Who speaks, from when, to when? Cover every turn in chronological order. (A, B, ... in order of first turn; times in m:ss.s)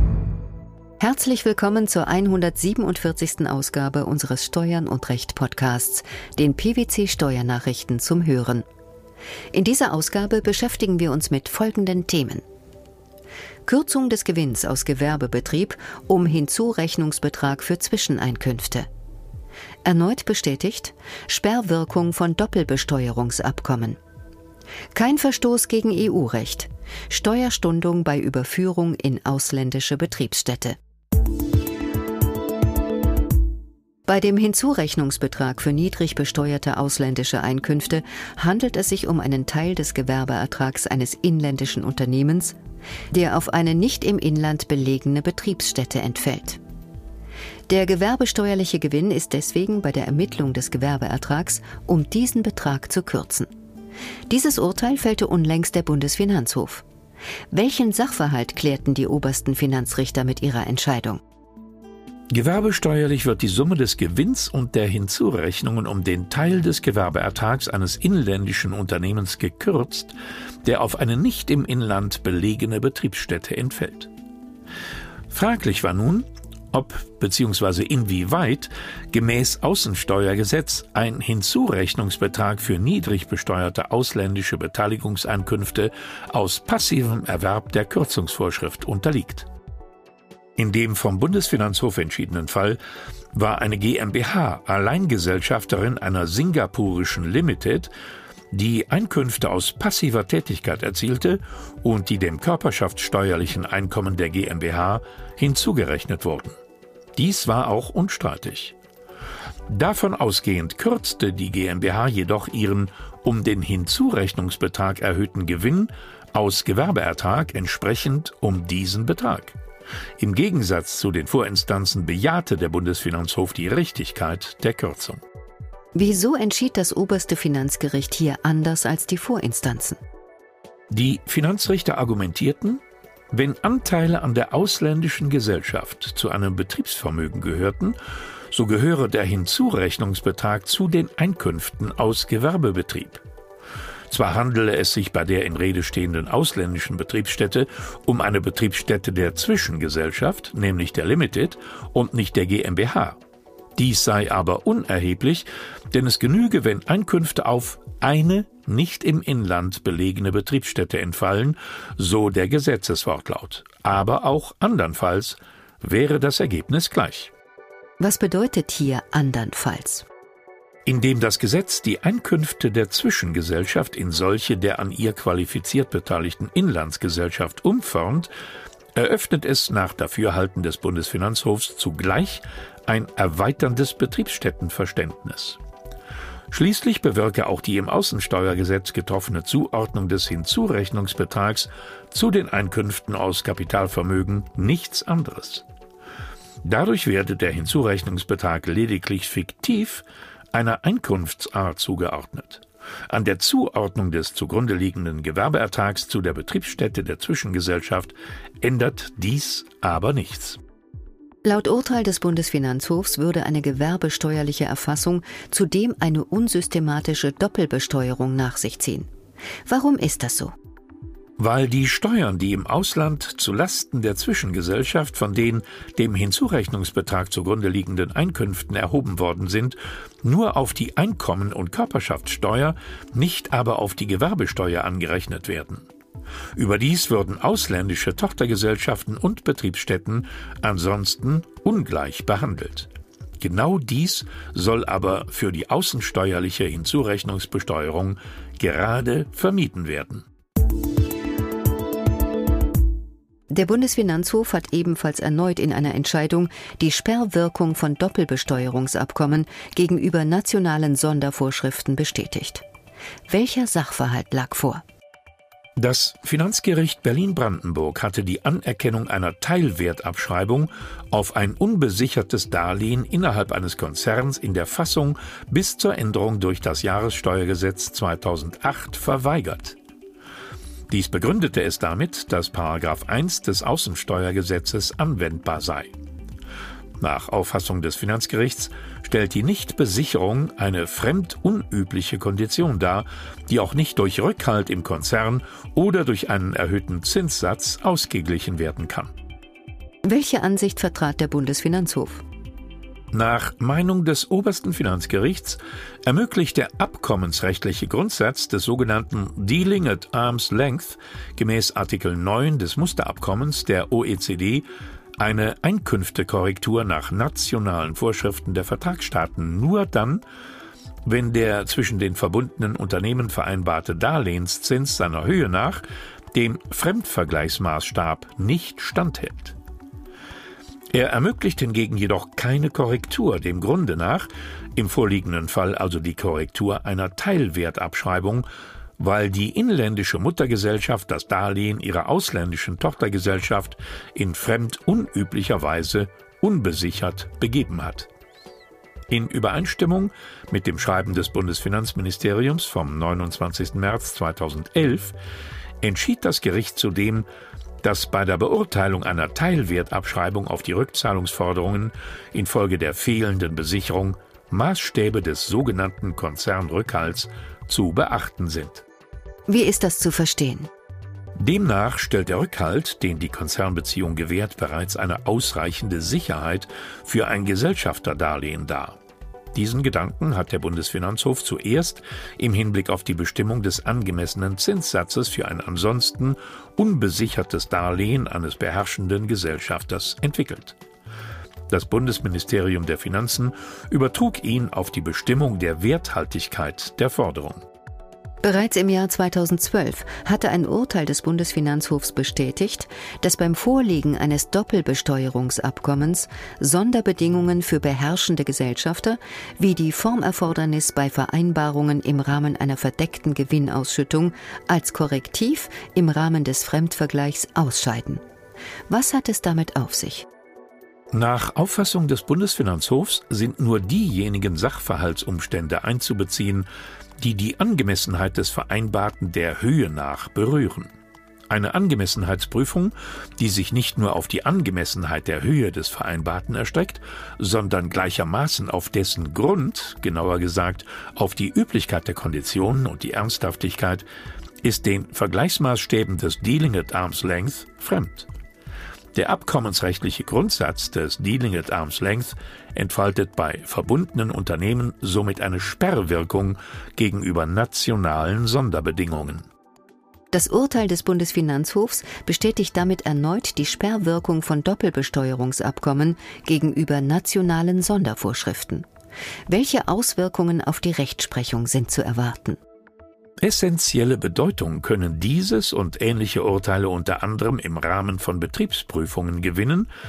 0:01.0-0:08.7 A
0:09.5-0:12.4 A
0:13.7-0:18.9 A
0:19.8-0:24.0 A
0:24.9-0:30.8 A
0:34.1-0:42.6 A
0:43.1-0:46.6 A
0:47.7-0:53.5 A
0:54.3-0:56.8 A
0:57.5-1:01.2 A
1:02.3-1:10.1 B
1:10.6-1:14.1 B
1:15.3-1:29.5 B
1:30.6-1:32.8 B
1:33.3-1:37.9 B
1:38.5-1:46.6 B
1:47.2-1:48.8 B
1:49.7-1:59.6 B
2:00.2-2:05.2 B
2:06.0-2:10.0 A
2:10.9-2:18.0 B
2:18.5-2:23.2 B
2:24.1-2:33.2 B
2:33.8-2:47.3 B
2:48.0-2:50.1 A
2:50.9-2:58.3 B
2:59.0-3:05.6 B
3:06.5-3:15.6 B
3:16.6-3:30.6 B
3:31.4-3:39.1 A
3:39.7-3:40.5 A
3:41.4-3:55.9 B
3:56.6-4:10.3 B
4:13.5-4:22.6 A
4:23.3-4:24.8 A
4:25.8-4:39.8 B
4:40.9-4:45.9 B
4:47.0-4:59.1 B
5:00.1-5:02.2 A
5:03.1-5:14.7 B
5:15.2-5:20.2 B
5:21.0-5:29.6 B
5:30.9-5:38.4 B
5:39.0-5:48.1 B
5:49.1-5:55.2 B
5:55.8-5:57.3 B
5:57.8-6:08.8 B
6:09.5-6:10.7 A
6:11.4-6:19.0 B
6:19.5-6:30.8 B
6:31.7-6:37.6 B
6:38.4-6:58.2 A
6:58.9-7:00.3 A
7:01.1-7:06.7 B
7:07.2-7:10.9 B
7:11.5-7:24.1 B
7:24.6-7:28.3 B
7:29.1-7:39.5 B
7:40.3-7:48.9 A
7:49.5-7:52.6 A
7:53.4-7:59.9 B